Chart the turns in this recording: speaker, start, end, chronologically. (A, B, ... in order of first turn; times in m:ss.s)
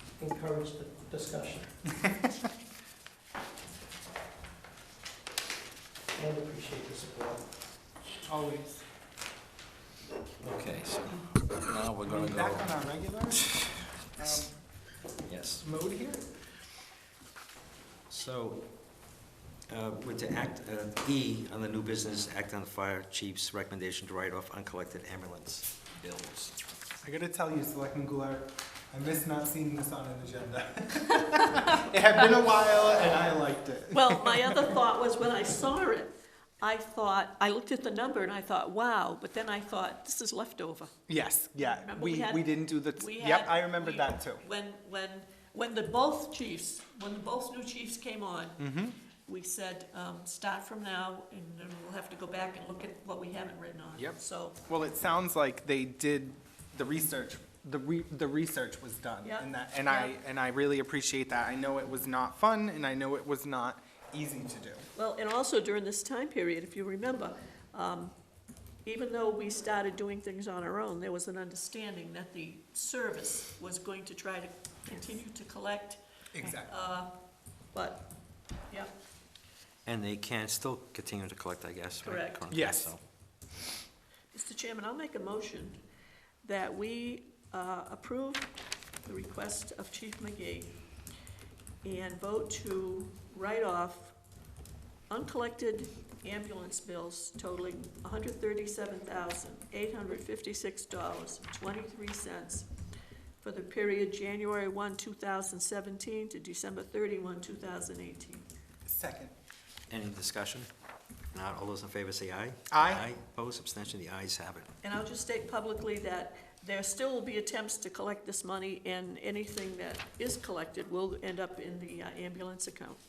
0:00.2-0:01.8 A
0:06.1-0:07.4 A
0:08.2-0:08.8 B
0:10.4-0:12.8 C
0:12.1-0:13.6 B
0:13.4-0:14.4 C
0:14.2-0:14.6 B
0:15.2-0:15.6 C
0:15.6-0:16.2 B
0:18.1-0:18.7 C
0:19.7-0:26.6 C
0:27.0-0:34.6 B
0:33.9-0:40.9 D
0:41.1-0:44.4 B
0:41.6-0:48.7 D
0:48.6-0:49.0 B
0:49.3-0:54.6 D
0:54.7-1:04.9 B
0:59.2-1:00.2 D
1:05.0-1:08.2 D
1:08.8-1:17.1 D
1:16.3-1:16.7 B
1:17.7-1:18.1 D
1:19.9-1:23.0 C
1:22.0-1:22.5 D
1:22.5-1:22.9 B
1:24.3-1:25.8 D
1:26.4-1:28.5 D
1:29.0-1:30.7 D
1:31.8-1:34.2 D
1:35.1-1:42.7 D
1:43.4-1:48.5 D
1:48.8-1:49.3 B
1:49.9-1:50.7 C
1:51.3-1:54.7 C
1:52.7-1:53.0 B
1:54.8-2:03.0 D